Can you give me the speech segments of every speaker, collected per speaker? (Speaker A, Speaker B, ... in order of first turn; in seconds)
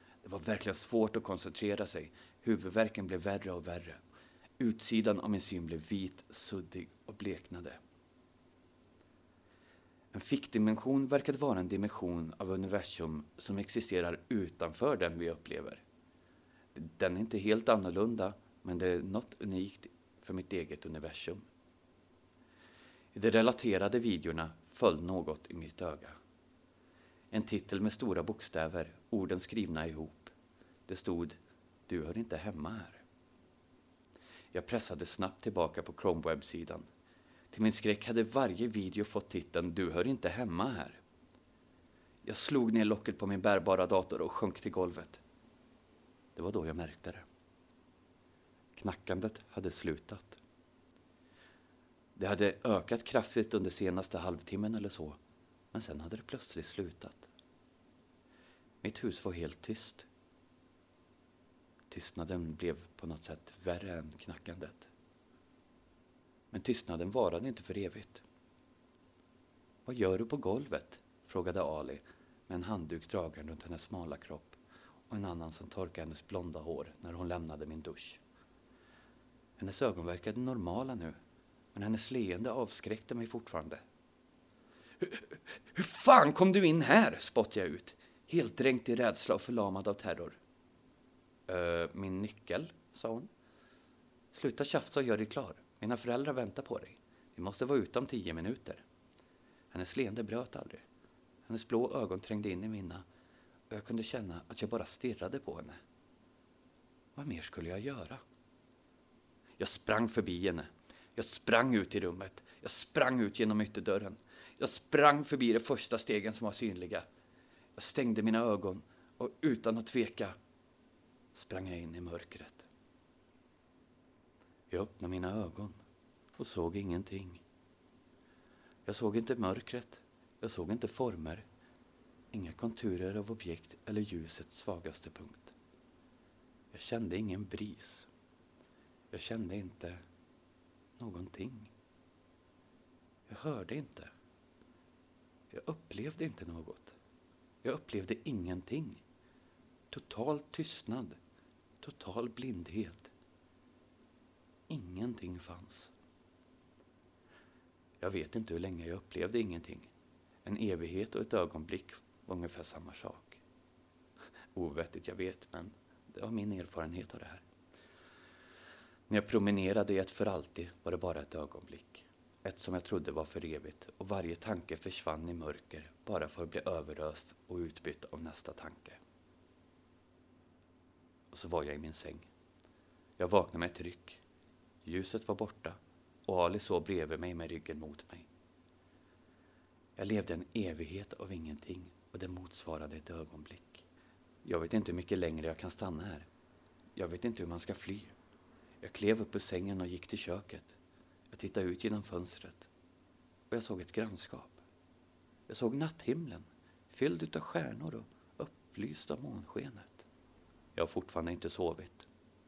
Speaker A: 0.2-4.0, 4.6-7.8, 10.1-15.8, 16.7-21.5, 23.1-26.2, 27.3-30.3, 30.9-33.0, 34.5-36.9, 37.5-41.0, 42.2-45.2, 46.4-47.2, 48.7-50.4, 52.1-55.2, 55.7-57.3, 58.8-60.1, 61.9-64.9, 66.5-68.2, 69.8-78.2, 79.6-81.2, 81.7-83.8, 85.0-90.4, 91.5-93.3, 94.3-98.8, 99.7-100.8, 101.5-103.0, 103.7-105.8, 107.1-108.2, 109.6-117.0, 117.8-120.3, 121.3-122.7, 124.7-125.8, 126.4-127.4, 128.8-131.4, 132.3-135.5, 136.7-138.1, 139.1-140.0, 141.0-141.7, 143.3-144.1, 145.5-147.0, 147.6-149.0, 149.9-151.2, 151.8-153.1, 154.7-155.9, 158.0-159.9, 160.4-163.4, 164.5-167.4, 169.1-179.0, 181.3-182.3, 183.2-184.2, 184.8-188.3, 189.9-193.8, 194.4-196.3, 196.9-198.1, 198.8-200.8, 201.3-202.7, 203.5-204.6, 205.5-210.1, 210.7-212.1